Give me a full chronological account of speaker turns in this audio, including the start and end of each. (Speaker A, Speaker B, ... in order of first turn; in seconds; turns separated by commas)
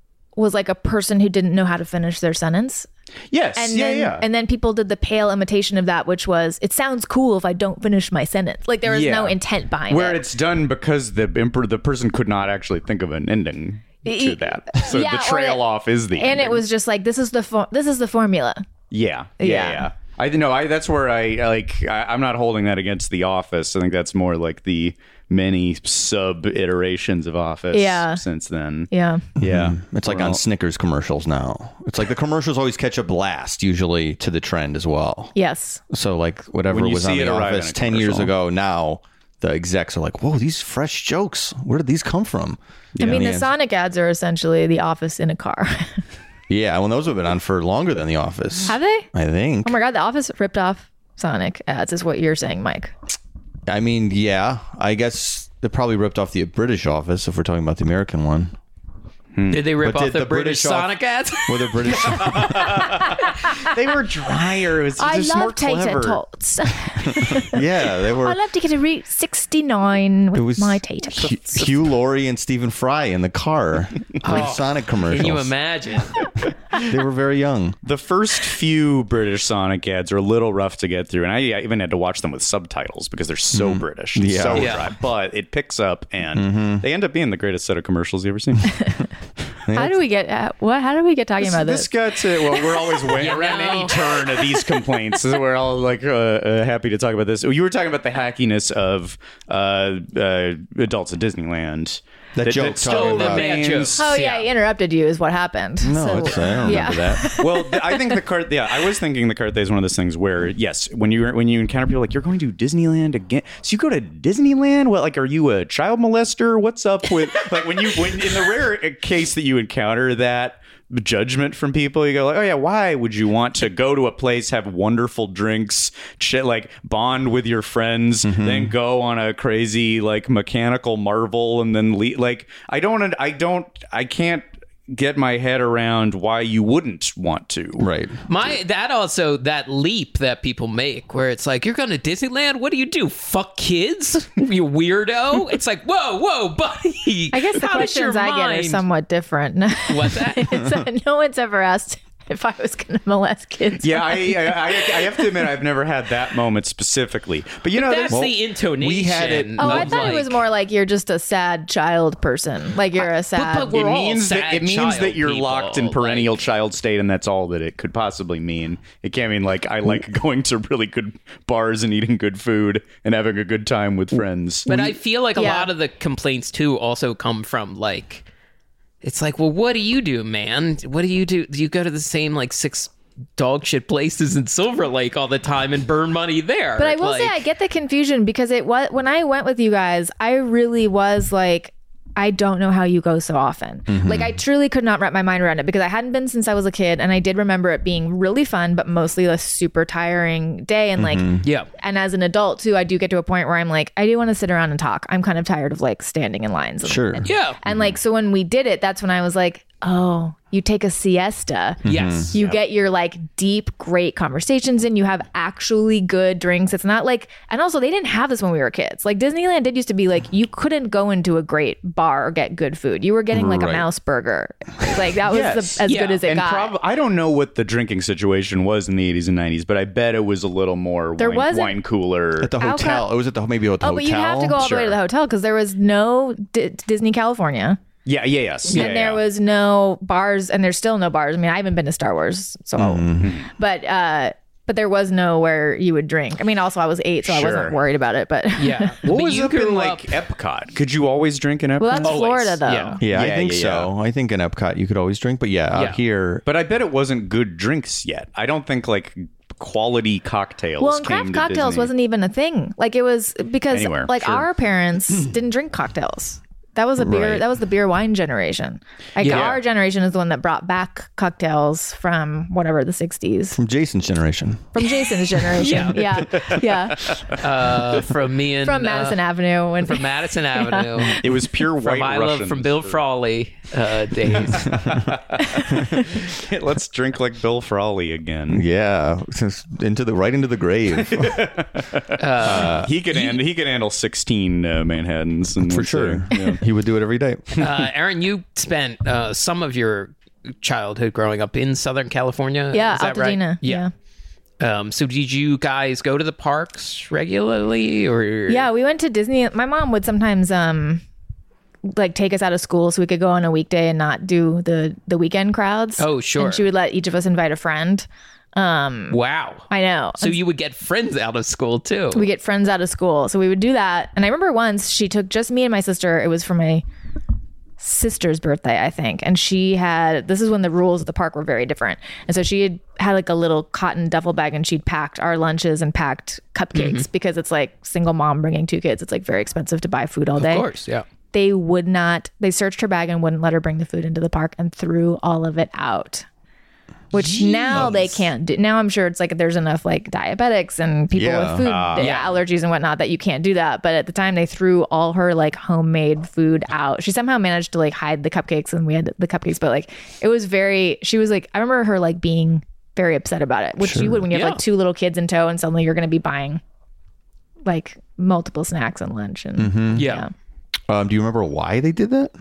Speaker A: 0.3-2.9, Speaker B: 3.3-4.2, Speaker A: 3.5-10.2, Speaker B: 8.8-16.6, Speaker A: 14.0-18.6, Speaker B: 18.9-30.4, Speaker A: 19.4-19.9, Speaker A: 27.7-28.2, Speaker A: 28.9-29.2, Speaker C: 29.4-35.3, Speaker A: 35.3-35.8, Speaker C: 35.9-43.5, Speaker B: 36.7-38.3, Speaker B: 43.0-43.2, Speaker A: 43.0-46.0, Speaker C: 46.5-49.8, Speaker A: 48.6-49.1, Speaker A: 49.6-52.9, Speaker C: 53.7-58.5, Speaker B: 59.3-59.6, Speaker D: 59.5-63.3, Speaker C: 59.8-63.0, Speaker B: 62.0-66.2, Speaker A: 65.0-67.6, Speaker C: 67.3-68.4, Speaker A: 68.2-71.6, Speaker C: 70.3-75.5, Speaker D: 74.2-76.8, Speaker C: 76.8-77.8, Speaker B: 77.8-88.9, Speaker C: 83.5-84.8, Speaker D: 84.5-84.9, Speaker C: 86.3-86.8, Speaker C: 89.7-90.0, Speaker A: 89.7-93.2, Speaker B: 91.4-104.2, Speaker D: 93.2-94.5, Speaker C: 102.3-103.7, Speaker D: 102.8-104.5, Speaker A: 103.9-108.2, Speaker C: 105.8-107.3, Speaker B: 107.4-137.9, Speaker C: 128.2-128.7, Speaker C: 137.8-138.2, Speaker D: 138.3-148.8, Speaker A: 147.3-155.5, Speaker D: 149.9-150.6, Speaker B: 153.8-158.2, Speaker D: 157.7-160.4, Speaker C: 158.1-159.8, Speaker A: 159.6-163.8, Speaker B: 159.6-160.0, Speaker D: 163.0-166.4, Speaker B: 163.7-174.9, Speaker D: 174.7-178.2, Speaker A: 175.3-175.7, Speaker D: 179.0-187.4, Speaker A: 186.8-211.8, Speaker C: 193.9-194.4, Speaker C: 201.0-201.4, Speaker D: 201.4-201.7, Speaker C: 206.8-207.9, Speaker D: 207.2-207.6, Speaker C: 211.8-212.3, Speaker D: 211.8-212.3, Speaker A: 212.3-226.7, Speaker C: 223.3-223.9, Speaker B: 225.3-232.6, Speaker D: 225.9-226.2, Speaker A: 231.2-231.8, Speaker C: 232.4-234.6, Speaker A: 232.6-233.1, Speaker A: 233.8-237.8, Speaker B: 234.6-235.0, Speaker B: 238.0-239.2, Speaker A: 238.7-248.9, Speaker C: 242.8-243.4, Speaker B: 243.2-243.5, Speaker B: 247.2-247.8, Speaker D: 248.6-250.2, Speaker B: 249.0-252.2, Speaker A: 251.8-253.0, Speaker D: 252.0-253.0, Speaker C: 253.0-256.4, Speaker B: 253.0-253.9, Speaker D: 255.7-256.0, Speaker B: 256.4-261.9, Speaker A: 260.8-273.6, Speaker B: 263.7-264.5, Speaker C: 267.0-267.4, Speaker D: 269.2-269.5, Speaker B: 269.2-269.6, Speaker C: 273.6-274.9, Speaker A: 274.7-277.1, Speaker D: 275.6-276.5, Speaker B: 276.3-277.4, Speaker D: 277.4-279.2, Speaker A: 278.6-281.2, Speaker D: 279.8-285.2, Speaker B: 281.1-283.0, Speaker B: 284.6-288.6, Speaker C: 288.5-291.4, Speaker B: 291.0-296.6, Speaker D: 292.2-293.4, Speaker C: 292.4-292.9, Speaker C: 295.6-297.7, Speaker D: 297.6-303.8, Speaker A: 302.7-303.9, Speaker D: 304.6-308.7, Speaker A: 308.5-311.0, Speaker A: 311.9-319.2, Speaker D: 316.0-316.7, Speaker D: 319.1-319.7, Speaker A: 319.7-320.4, Speaker D: 320.2-322.3, Speaker A: 322.1-326.8, Speaker A: 327.8-340.7, Speaker D: 336.7-337.0, Speaker D: 340.4-341.1, Speaker A: 341.3-346.2, Speaker A: 347.1-366.6, Speaker D: 347.2-347.9, Speaker C: 351.1-351.7, Speaker B: 351.6-352.2, Speaker D: 351.9-352.4, Speaker C: 363.8-364.2, Speaker D: 364.3-364.6, Speaker A: 367.6-370.3, Speaker C: 369.6-370.1, Speaker D: 369.9-370.2, Speaker C: 370.9-372.3